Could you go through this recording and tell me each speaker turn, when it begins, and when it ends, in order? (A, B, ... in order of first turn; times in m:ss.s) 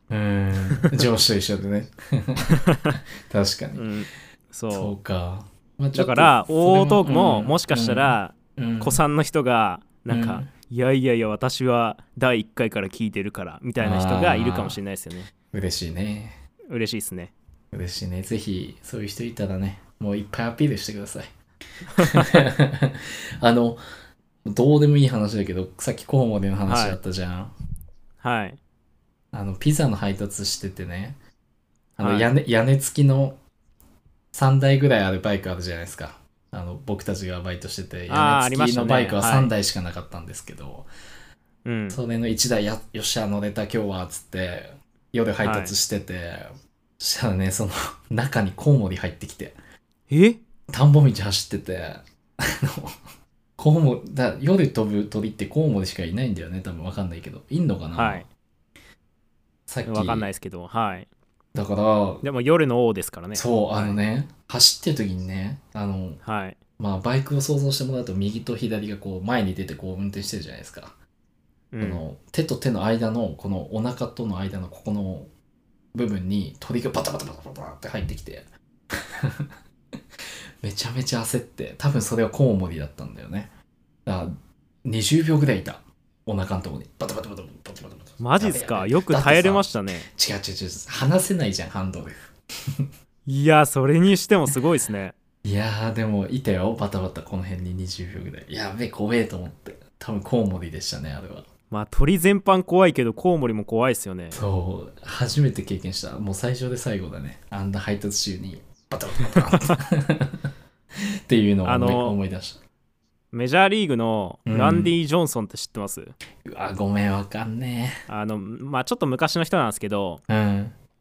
0:00.1-0:02.6 A
0:02.6-0:03.0 B
0:03.2-0:03.9 A
0:03.7-0:04.9 B
0:04.7-0:09.0 A
0:05.9-0:15.3 B
0:10.1-0:10.5 A
0:13.8-0:14.8 A
0:15.5-0:16.4 A
0:16.7-0:17.3 B
0:17.7-0:21.3 A
0:22.0-0:22.3 B
0:22.0-0:23.8 A
0:24.4-0:27.5 A
0:26.7-0:27.0 B
0:28.2-0:28.6 B
0:29.3-0:31.2 A
0:32.0-0:33.4 A
0:32.0-0:32.3 B
0:34.3-0:40.9 A
0:38.1-0:39.5 B
0:41.6-0:42.0 B
0:41.9-0:49.6 A
0:45.4-0:45.7 B
0:50.1-0:50.4 B
0:50.7-0:53.0 A
0:53.6-0:58.2 A
0:57.9-0:58.3 B
0:59.7-1:00.3 A
0:59.8-1:01.1 B
1:01.5-1:02.2 A
1:02.2-1:04.0 B
1:03.3-1:06.2 A
1:06.2-1:06.6 B
1:06.8-1:10.9 A
1:11.7-1:12.0 B
1:11.8-1:15.3 A
1:15.9-1:19.5 A
1:20.6-1:23.5 A
1:24.0-1:32.2 A
1:28.2-1:30.1 B
1:33.2-1:35.2 B
1:35.4-1:41.5 A
1:41.7-1:44.4 B
1:44.3-1:50.4 A
1:51.3-1:52.6 A
1:51.6-1:52.2 B
1:53.3-1:56.1 B
1:54.5-1:54.9 A
1:56.4-1:58.0 A
1:58.1-2:00.2 B
2:00.3-2:00.7 A